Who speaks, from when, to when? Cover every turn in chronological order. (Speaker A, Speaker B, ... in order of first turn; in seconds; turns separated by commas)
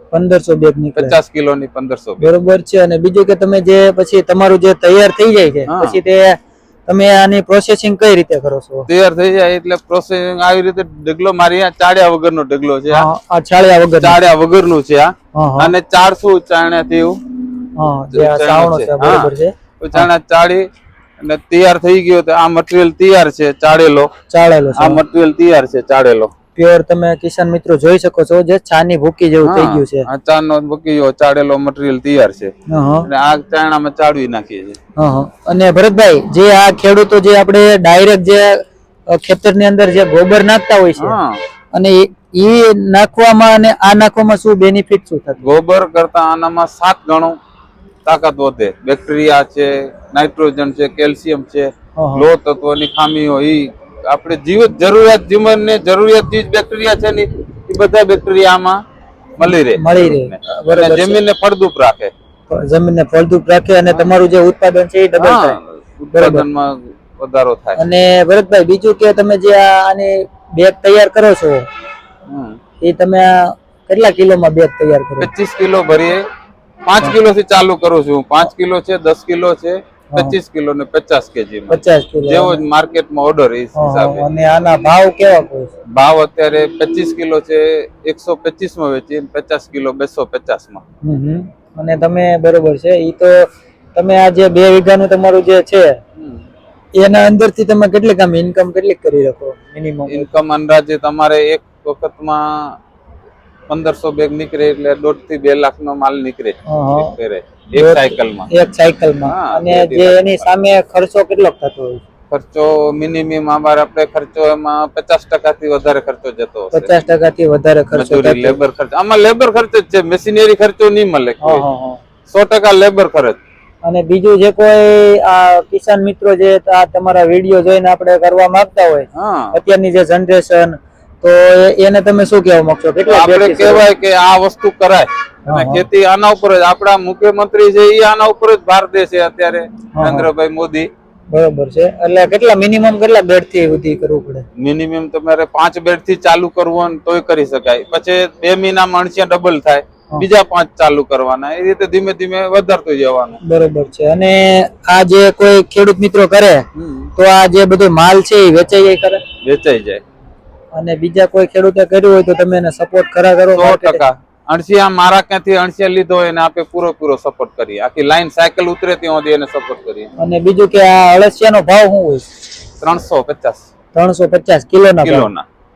Speaker A: 0.1-1.2, Speaker B: 0.9-2.3, Speaker A: 2.2-8.9, Speaker B: 5.7-6.0, Speaker B: 8.9-13.1, Speaker A: 12.9-14.2, Speaker B: 14.0-17.2, Speaker A: 15.3-15.7, Speaker A: 17.8-20.1, Speaker B: 18.1-20.6, Speaker B: 21.2-24.1, Speaker A: 24.3-25.0, Speaker B: 24.8-26.3, Speaker A: 26.6-30.1, Speaker B: 29.4-32.5, Speaker A: 32.7-33.1, Speaker B: 33.0-34.8, Speaker A: 35.0-41.2, Speaker B: 41.0-41.4, Speaker A: 41.7-45.5, Speaker B: 45.4-47.4, Speaker B: 48.0-58.8, Speaker A: 52.0-52.3, Speaker B: 59.4-62.1, Speaker A: 59.4-61.2, Speaker A: 62.5-65.6, Speaker B: 65.2-67.8, Speaker A: 66.1-66.5, Speaker A: 67.8-71.6, Speaker B: 72.3-72.6, Speaker A: 72.8-75.3, Speaker B: 75.2-76.2, Speaker B: 76.8-84.2, Speaker A: 81.7-82.6, Speaker A: 83.8-85.7, Speaker B: 85.9-90.8, Speaker A: 91.0-96.0, Speaker B: 96.2-96.4, Speaker A: 97.0-100.3, Speaker B: 100.1-102.8, Speaker B: 103.7-108.5, Speaker A: 106.7-107.1, Speaker A: 107.8-112.0, Speaker B: 109.2-110.5, Speaker B: 112.3-116.9, Speaker A: 116.7-118.6, Speaker B: 117.9-121.6, Speaker A: 121.4-122.0, Speaker B: 122.3-123.4, Speaker A: 123.8-133.8, Speaker B: 129.1-129.6, Speaker B: 133.1-140.9, Speaker A: 135.5-135.8, Speaker A: 140.0-140.3, Speaker A: 141.3-144.4, Speaker B: 144.6-153.4, Speaker A: 153.4-156.6, Speaker B: 156.7-157.1, Speaker A: 157.2-159.2, Speaker B: 159.4-160.0, Speaker A: 160.7-164.0, Speaker B: 163.5-170.1, Speaker A: 170.2-172.2, Speaker B: 172.8-173.7, Speaker A: 173.9-175.3, Speaker B: 175.0-175.4